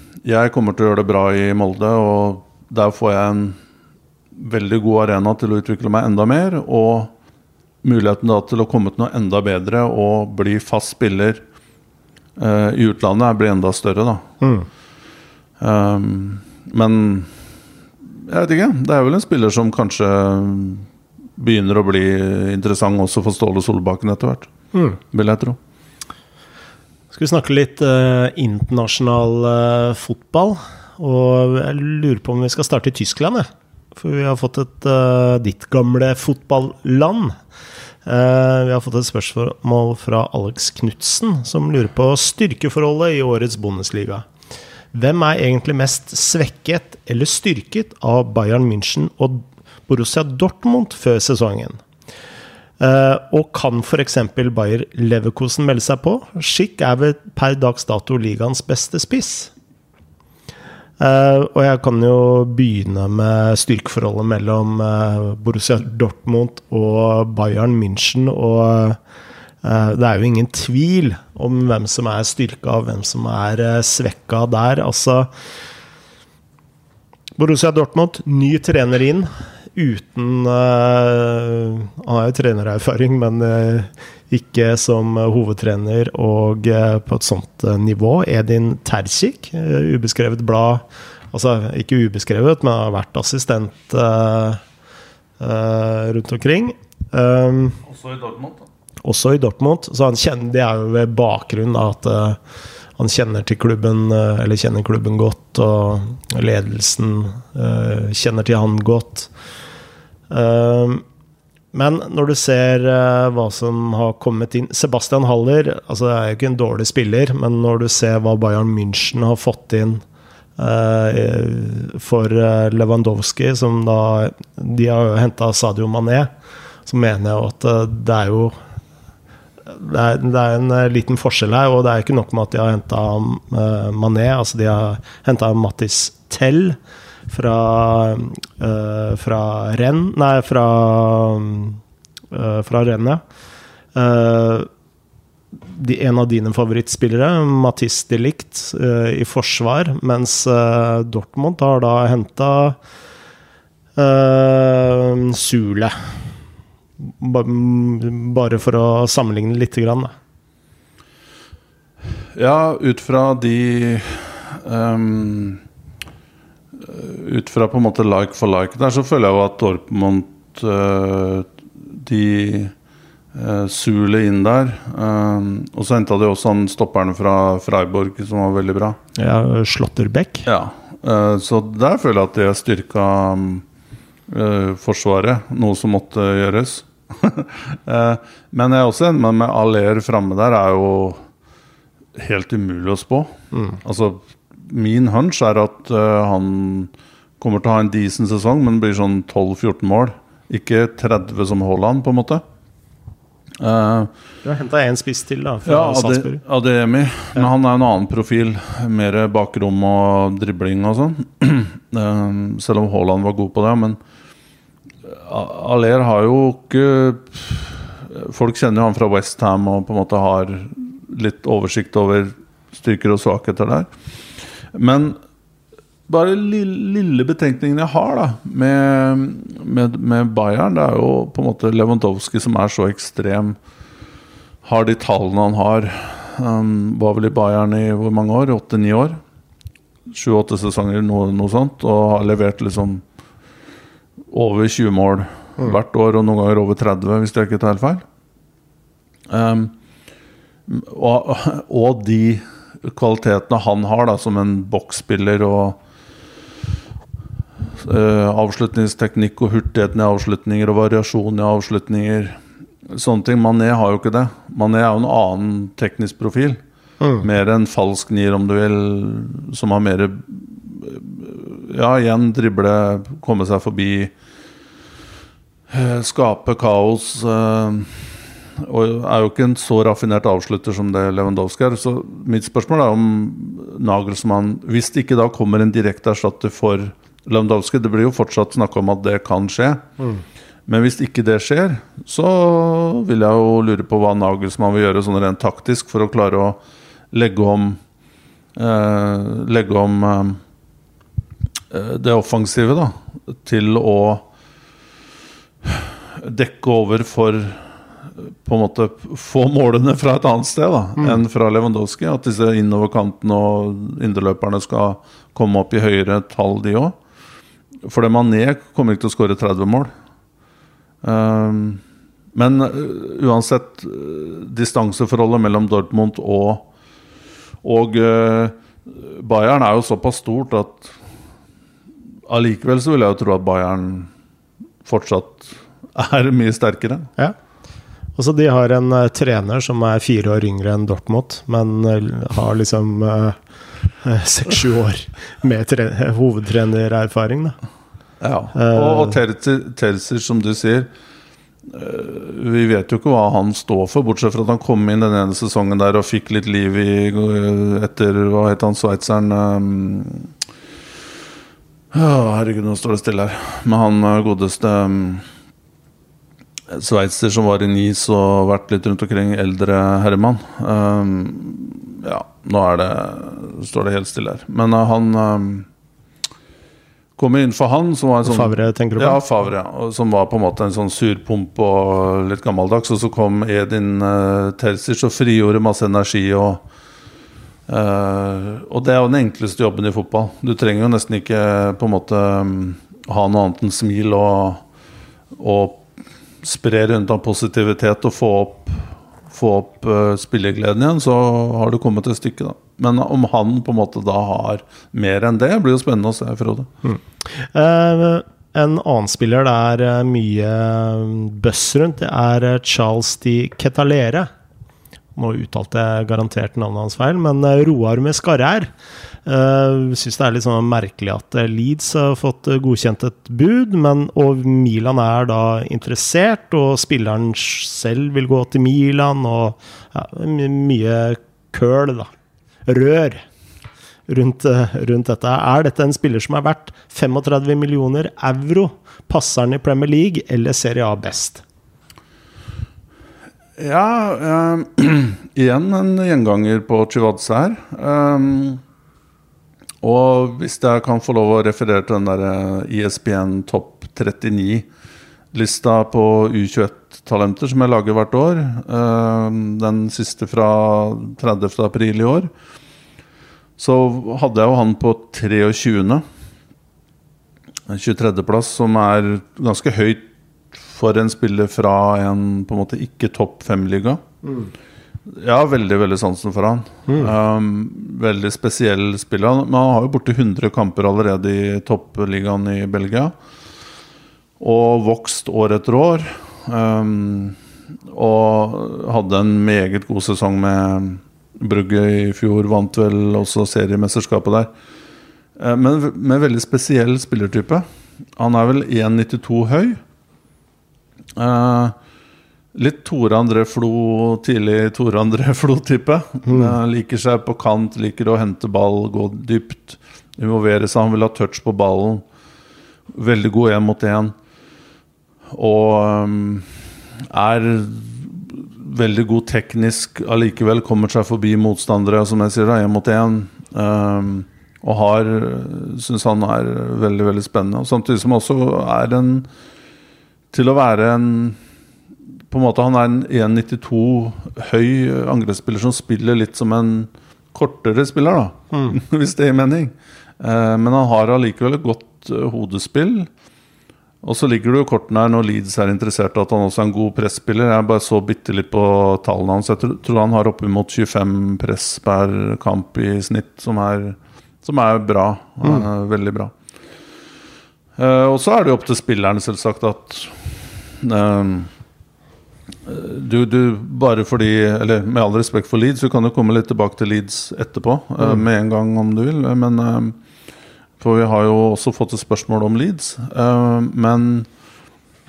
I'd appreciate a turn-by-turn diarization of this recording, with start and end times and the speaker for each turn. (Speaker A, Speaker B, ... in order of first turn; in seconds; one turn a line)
Speaker A: 0.2-3.6
Speaker A: 4.3-7.1
Speaker A: 7.8-11.4
Speaker A: 12.4-14.2
Speaker B: 14.4-14.7
Speaker A: 15.6-17.3
Speaker A: 18.1-20.9
Speaker A: 21.4-24.5
Speaker B: 24.7-25.0
Speaker A: 25.1-25.6
Speaker B: 27.1-37.3
Speaker B: 38.0-44.2
Speaker B: 44.9-51.8
Speaker B: 52.8-59.5
Speaker B: 61.0-69.0
Speaker B: 69.6-75.3
Speaker B: 77.4-94.6
Speaker B: 95.4-97.8
Speaker A: 97.8-98.6
Speaker B: 99.0-102.4
Speaker B: 103.0-109.3
Speaker B: 110.3-111.0
Speaker B: 111.7-120.0
Speaker B: 120.6-126.3
Speaker B: 126.8-128.5
Speaker B: 129.7-136.8
Speaker B: 137.3-141.8
Speaker B: 142.3-143.2
Speaker B: 143.9-144.7
Speaker B: 145.7-152.8
Speaker B: 154.0-155.9
Speaker B: 157.0-160.1
Speaker A: 162.3-165.6
Speaker A: 166.8-172.7
Speaker A: 173.3-179.0
Speaker B: 179.2-180.5
Speaker A: 180.4-183.6
Speaker A: 184.3-191.2
Speaker A: 192.2-202.4
Speaker A: 203.6-204.1
Speaker B: 204.4-206.4
Speaker A: 205.7-214.0
Speaker A: 215.0-223.9
Speaker A: 224.7-225.2
Speaker A: 226.1-233.6
Speaker A: 234.6-239.2
Speaker A: 240.1-243.0
Speaker A: 244.3-248.0
Speaker A: 249.3-249.7
Speaker A: 250.7-255.8
Speaker A: 257.8-266.6
Speaker A: 267.2-274.1
Speaker A: 275.7-289.8
Speaker A: 290.7-296.6
Speaker A: 297.1-297.8
Speaker A: 298.6-300.4
Speaker A: 301.7-304.3
Speaker A: 305.6-316.9
Speaker A: 317.8-319.9
Speaker A: 321.0-321.8
Speaker A: 322.3-326.7
Speaker A: 327.6-330.9
Speaker A: 332.3-334.1
Speaker A: 334.8-337.1
Speaker B: 338.2-343.4
Speaker B: 344.0-347.6
Speaker A: 348.2-350.9
Speaker B: 348.5-349.2
Speaker A: 351.6-360.3
Speaker A: 361.9-365.2
Speaker A: 366.7-375.7
Speaker A: 377.2-386.6
Speaker B: 378.2-379.2
Speaker A: 387.7-394.6
Speaker A: 395.3-395.9
Speaker A: 396.4-406.7
Speaker B: 406.8-414.3
Speaker B: 415.1-418.7
Speaker B: 419.2-432.1
Speaker B: 432.6-433.2
Speaker B: 434.1-441.4
Speaker A: 443.6-448.6
Speaker A: 449.8-454.7
Speaker A: 455.3-462.3
Speaker A: 463.6-466.0
Speaker A: 467.7-474.0
Speaker A: 475.1-483.1
Speaker A: 484.4-487.4
Speaker A: 487.9-494.5
Speaker A: 495.4-497.6
Speaker A: 498.2-499.8
Speaker A: 501.1-501.8
Speaker A: 502.5-512.0
Speaker B: 506.3-506.5
Speaker A: 512.9-514.1
Speaker A: 515.3-529.3
Speaker A: 530.3-531.4
Speaker A: 532.3-543.1
Speaker A: 544.0-556.3
Speaker A: 557.8-561.5
Speaker A: 562.6-570.0
Speaker A: 570.8-574.3